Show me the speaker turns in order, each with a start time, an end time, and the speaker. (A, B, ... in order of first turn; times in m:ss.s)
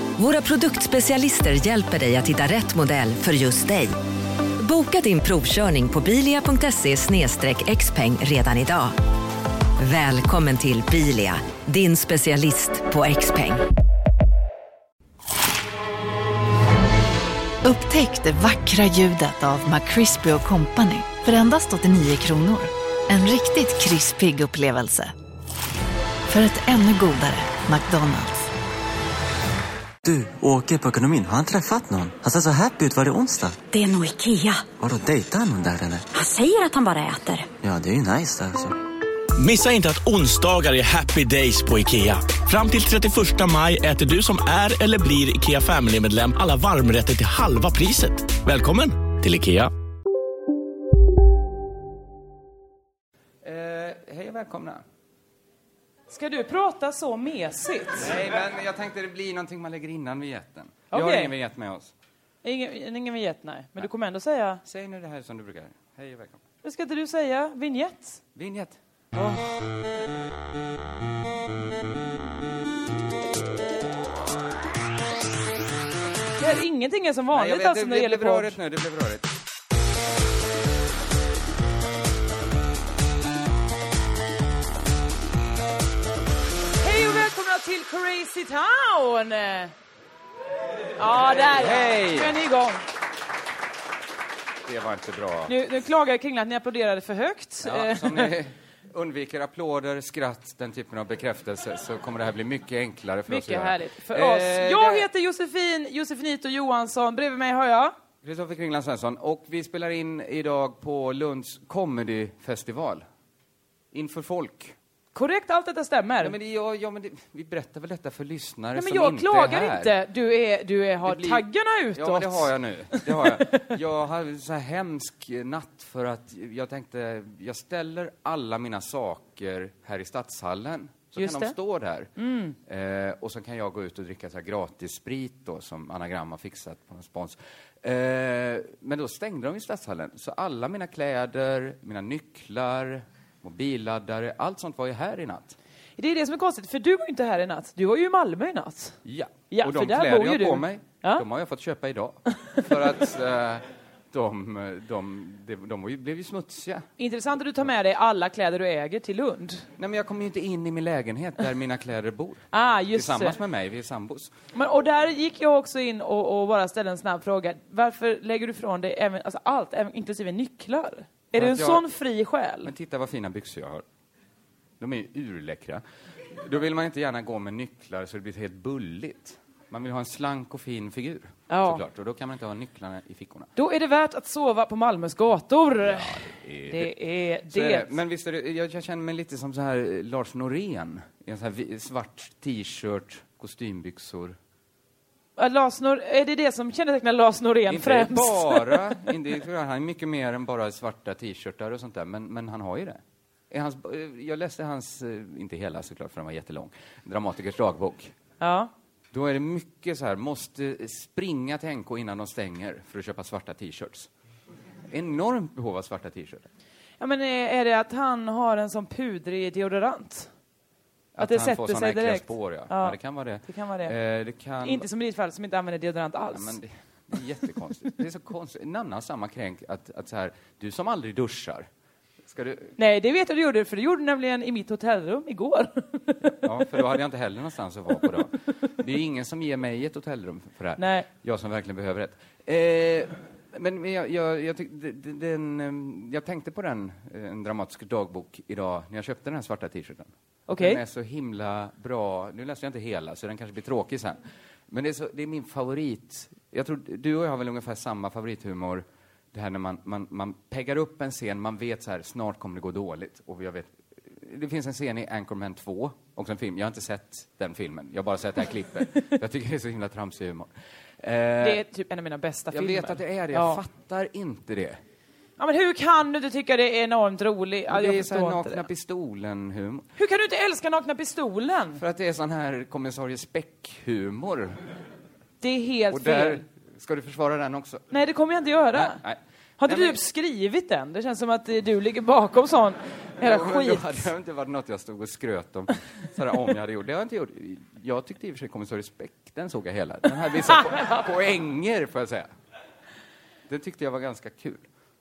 0:00.2-0:04.0 A
0:04.6-0:09.0 A
0:09.8-0:13.6 A
0:17.6-0:25.1 B
0:26.3-0:28.5 B
0:30.0-0:33.6 C
0:33.7-0:34.7 D
0:34.8-0:36.1 C
0:36.1-0:37.5 D
0:37.6-0:38.8 C
0:39.4-0:49.7 E
0:53.4-0:54.8 F
0:56.1-0:58.1 G
0:58.0-1:01.9 F
1:00.9-1:01.3 G
1:02.4-1:04.6 G
1:04.6-1:06.4 F
1:06.6-1:08.2 G
1:08.4-1:08.8 F
1:16.4-1:18.6 G
1:17.3-1:19.3 F
1:26.8-1:29.7 G
1:31.0-1:32.8 G
1:31.2-1:32.3 F
1:34.6-1:35.6 F
1:35.5-1:38.3 G
1:37.6-1:45.1 F
1:43.3-1:47.9 G
1:48.2-1:53.0 F
1:53.9-1:54.8 F
1:55.1-1:56.3 G
1:56.2-1:59.9 F
1:58.8-2:03.7 G
2:01.0-2:12.1 F
2:11.2-2:11.6 G
2:12.2-2:12.6 G
2:12.7-2:25.6 F
2:26.0-2:29.0 G
2:29.0-2:36.9 F
2:29.5-2:31.2 G
2:37.0-2:39.7 G
2:39.8-2:44.3 F
2:42.5-2:43.4 G
2:44.5-2:52.7 G
2:51.3-2:51.9 F
2:52.6-2:53.8 F
2:54.8-3:03.5 F
3:01.5-3:01.8 G
3:03.6-3:07.9 G
3:05.8-3:06.9 F
3:07.5-3:14.4 F
3:15.4-3:19.0 G
3:17.7-3:28.1 F
3:28.4-3:28.7 G
3:29.1-3:34.1 F
3:34.9-3:36.5 F
3:37.0-3:40.3 G
3:41.2-3:44.9 F
3:41.2-3:43.9 G
3:44.6-3:46.6 G
3:46.3-3:51.7 F
3:52.2-3:52.8 F
3:52.8-3:56.8 G
3:56.4-4:31.6 F
4:00.8-4:01.1 G
4:10.5-4:10.8 G
4:31.4-4:33.6 G
4:32.5-4:34.8 F
4:35.4-4:38.7 G
4:37.7-4:39.9 F
4:40.0-4:41.8 G
4:41.8-4:44.6 F
4:45.4-4:46.4 G
4:45.9-4:47.8 F
4:47.9-4:49.0 G
4:48.7-4:50.0 F
4:49.6-4:54.1 G
4:53.2-5:02.3 F
5:03.5-5:04.7 F